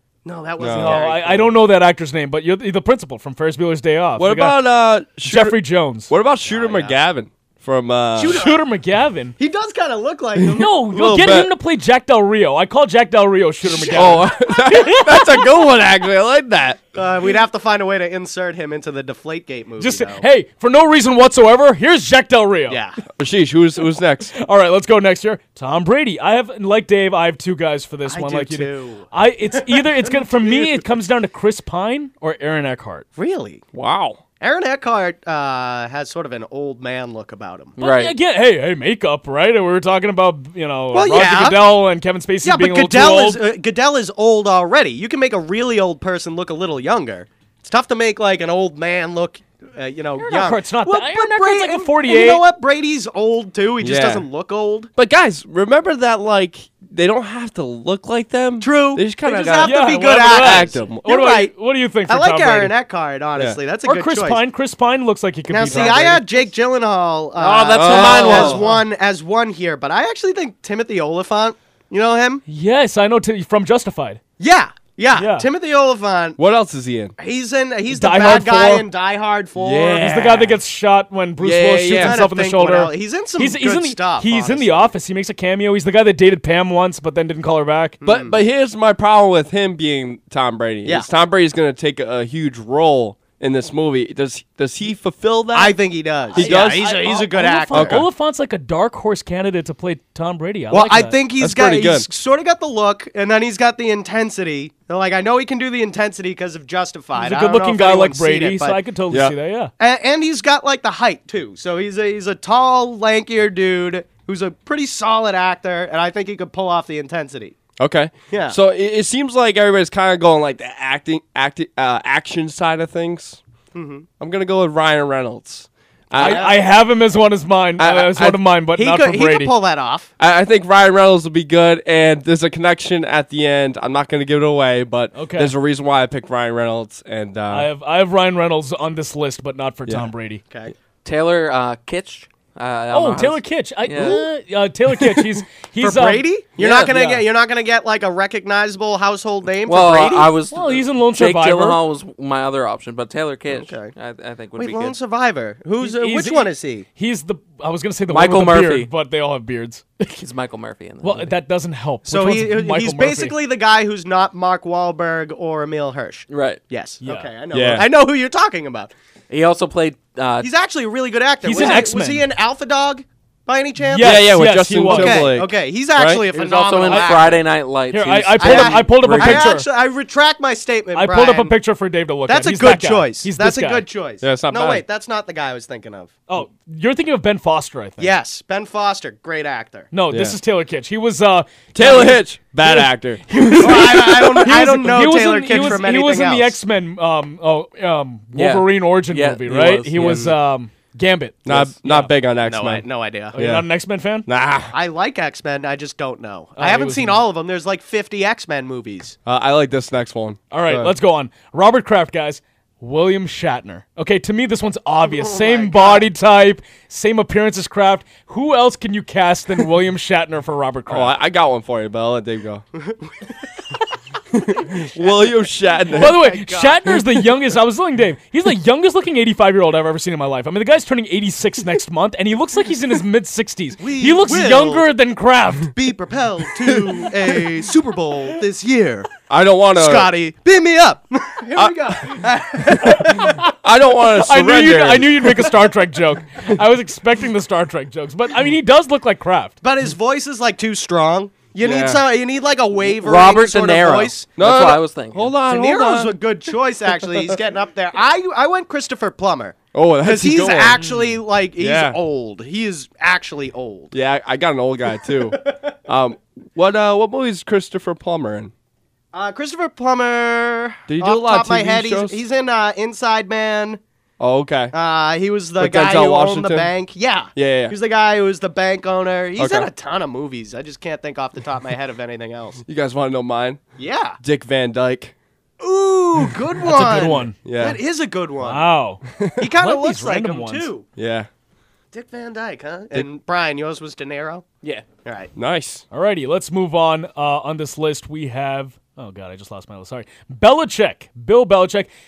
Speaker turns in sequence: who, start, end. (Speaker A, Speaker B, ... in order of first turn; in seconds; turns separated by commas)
Speaker A: 0.2-1.5, Speaker B: 0.6-1.0, Speaker C: 0.7-4.6, Speaker B: 4.2-5.6, Speaker C: 5.2-6.1, Speaker B: 6.1-8.4, Speaker A: 6.5-7.0, Speaker C: 8.2-9.3, Speaker A: 8.2-8.6, Speaker A: 9.4-10.7, Speaker B: 10.4-11.5, Speaker C: 10.5-15.4, Speaker A: 13.7-14.3, Speaker B: 13.9-16.9, Speaker A: 16.9-20.2, Speaker C: 19.8-22.8, Speaker A: 22.7-23.0, Speaker B: 23.2-24.3, Speaker C: 24.4-33.0, Speaker A: 28.1-30.8, Speaker A: 33.1-33.6, Speaker B: 33.7-34.2, Speaker A: 34.4-37.7, Speaker D: 37.8-38.1, Speaker C: 37.8-43.4, Speaker A: 40.9-41.8, Speaker A: 42.4-54.9, Speaker C: 50.2-52.4, Speaker B: 53.8-54.2, Speaker B: 55.0-61.0, Speaker A: 58.6-61.5, Speaker C: 59.6-62.7, Speaker A: 62.1-64.4, Speaker C: 63.8-66.4, Speaker A: 65.5-72.4, Speaker D: 67.4-68.6, Speaker B: 67.7-68.7, Speaker C: 68.1-68.7, Speaker C: 72.5-74.2, Speaker A: 74.4-76.4, Speaker C: 75.2-75.5, Speaker B: 76.4-77.1, Speaker A: 77.2-80.2, Speaker C: 77.9-78.8, Speaker B: 79.6-80.5, Speaker C: 79.9-88.0, Speaker B: 81.4-82.2, Speaker A: 81.9-84.9, Speaker A: 88.0-88.4, Speaker B: 88.0-96.9, Speaker A: 95.5-98.0, Speaker C: 96.3-101.2, Speaker B: 97.7-98.0, Speaker A: 100.7-108.8, Speaker B: 101.4-102.0, Speaker C: 107.2-109.7, Speaker A: 109.8-117.5, Speaker B: 117.8-123.4, Speaker A: 118.3-118.6, Speaker A: 123.7-124.1, Speaker B: 124.2-126.5, Speaker A: 126.2-126.6, Speaker C: 126.2-129.5, Speaker B: 127.8-128.4, Speaker A: 128.7-130.1, Speaker B: 130.2-137.7, Speaker C: 135.1-135.5, Speaker C: 137.5-140.4, Speaker D: 141.0-144.2, Speaker C: 142.9-147.2, Speaker A: 145.8-150.3, Speaker D: 149.7-155.0, Speaker C: 150.5-151.8, Speaker A: 153.5-153.9, Speaker A: 154.5-156.8, Speaker C: 155.8-160.1, Speaker D: 158.1-158.9, Speaker D: 160.1-161.3, Speaker C: 161.0-163.4, Speaker A: 162.1-168.9, Speaker D: 166.3-166.6, Speaker C: 167.0-167.3, Speaker B: 167.5-167.9, Speaker D: 169.3-170.5, Speaker A: 170.4-177.4, Speaker C: 171.4-172.2, Speaker C: 173.8-175.3, Speaker B: 174.0-176.2, Speaker D: 176.3-179.5, Speaker C: 177.9-179.7, Speaker A: 178.4-181.6, Speaker C: 180.9-183.8, Speaker A: 182.3-186.1, Speaker B: 184.2-184.8, Speaker C: 186.3-188.1, Speaker A: 188.0-189.9, Speaker C: 189.9-202.1, Speaker B: 190.1-190.4, Speaker B: 191.7-194.5, Speaker A: 193.6-196.5, Speaker D: 198.3-200.3, Speaker B: 201.4-203.6, Speaker A: 202.4-203.3, Speaker C: 203.3-204.3, Speaker B: 204.2-204.7, Speaker A: 204.7-209.2, Speaker C: 206.6-207.2, Speaker B: 209.2-210.9, Speaker C: 210.5-221.1, Speaker A: 215.1-216.1, Speaker B: 220.9-222.7, Speaker A: 222.8-223.1, Speaker B: 224.3-226.2, Speaker A: 225.0-225.3, Speaker A: 225.9-226.9, Speaker C: 225.9-235.7, Speaker A: 233.8-234.8, Speaker A: 235.7-239.1, Speaker B: 239.3-240.1, Speaker A: 239.7-243.3, Speaker B: 241.6-242.1, Speaker C: 242.8-243.5, Speaker B: 243.6-245.5, Speaker C: 244.1-249.6, Speaker A: 249.6-254.3, Speaker B: 251.6-252.0, Speaker D: 253.0-255.3, Speaker B: 254.3-256.1, Speaker A: 255.4-263.9, Speaker B: 259.7-260.8, Speaker B: 261.6-262.0, Speaker B: 263.9-268.5, Speaker A: 269.1-273.8, Speaker B: 270.9-272.2, Speaker B: 274.2-274.7, Speaker A: 274.7-282.6, Speaker B: 275.6-276.7, Speaker B: 277.3-277.7, Speaker B: 279.4-279.7, Speaker B: 282.6-283.6, Speaker A: 283.8-284.2, Speaker B: 284.2-285.1, Speaker A: 285.6-288.7, Speaker C: 286.6-287.4, Speaker B: 287.4-287.8, Speaker C: 288.4-289.0, Speaker A: 289.4-290.8, Speaker C: 289.6-290.7, Speaker B: 291.0-291.3, Speaker A: 291.9-294.4, Speaker A: 295.0-295.3, Speaker B: 295.4-295.8, Speaker C: 295.9-301.9